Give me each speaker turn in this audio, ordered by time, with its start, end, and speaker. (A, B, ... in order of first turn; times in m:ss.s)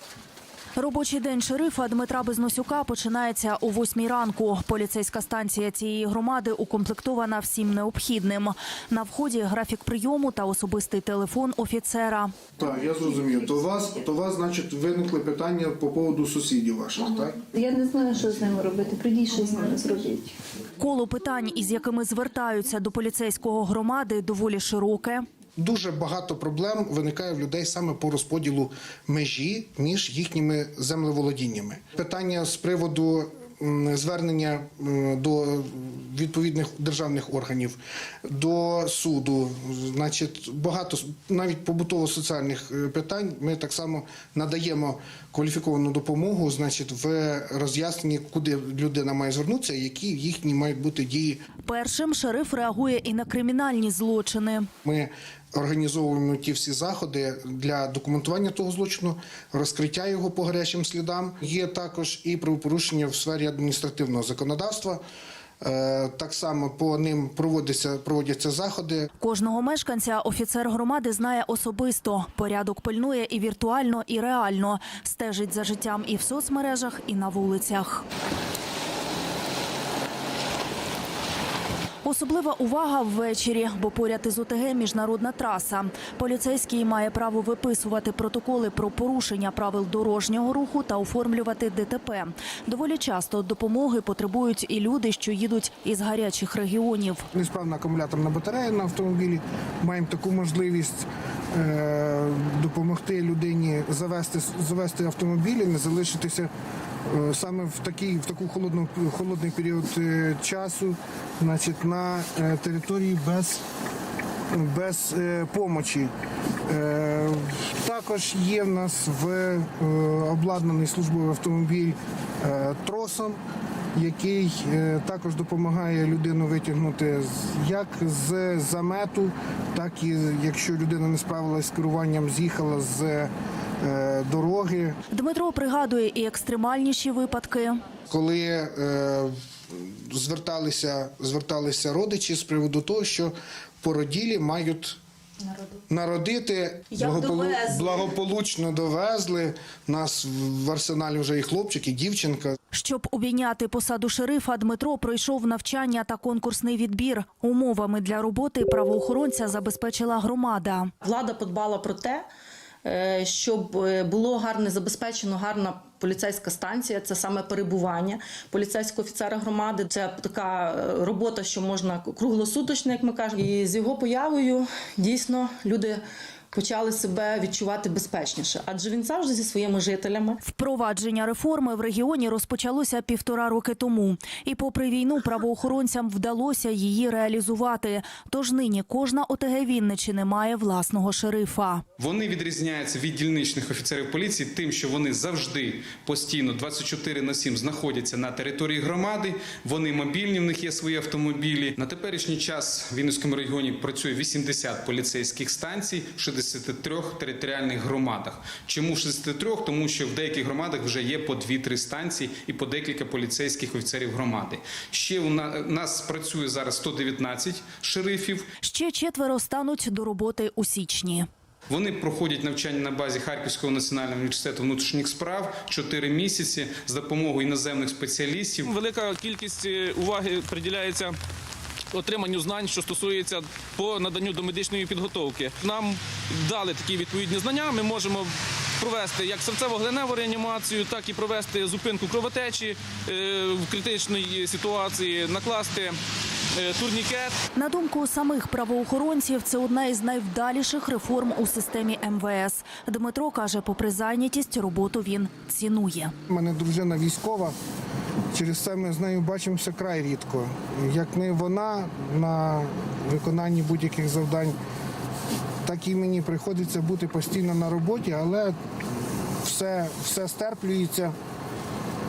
0:00.8-0:12.3 A
0:12.6-0:17.4 B
0:17.5-0:20.4 C
0:20.8-0:25.2 A
0:25.6-0:51.4 B
0:51.6-0:54.7 A
0:54.8-1:05.0 B
1:05.6-1:09.1 B
1:09.2-1:18.0 A
1:22.0-1:37.3 A
1:37.3-1:46.5 B
1:47.1-1:53.6 B
1:54.5-1:56.1 B
1:56.7-2:03.4 B
2:03.9-2:15.0 B
2:15.1-2:17.8 A
2:18.1-2:25.0 B
2:25.9-2:32.6 B
2:26.9-2:28.0 D
2:32.7-2:40.9 A
2:41.0-2:42.2 D
2:42.8-3:00.4 D
3:00.4-3:11.8 A
3:12.0-3:38.5 E
3:38.6-3:41.3 A
3:41.7-3:48.7 E
3:48.6-3:51.2 F
3:51.9-4:06.0 F
4:06.5-4:07.4 F
4:07.6-4:16.1 A
4:16.3-4:17.5 B
4:18.3-4:24.6 B
4:25.6-4:28.6 B
4:29.4-4:31.1 B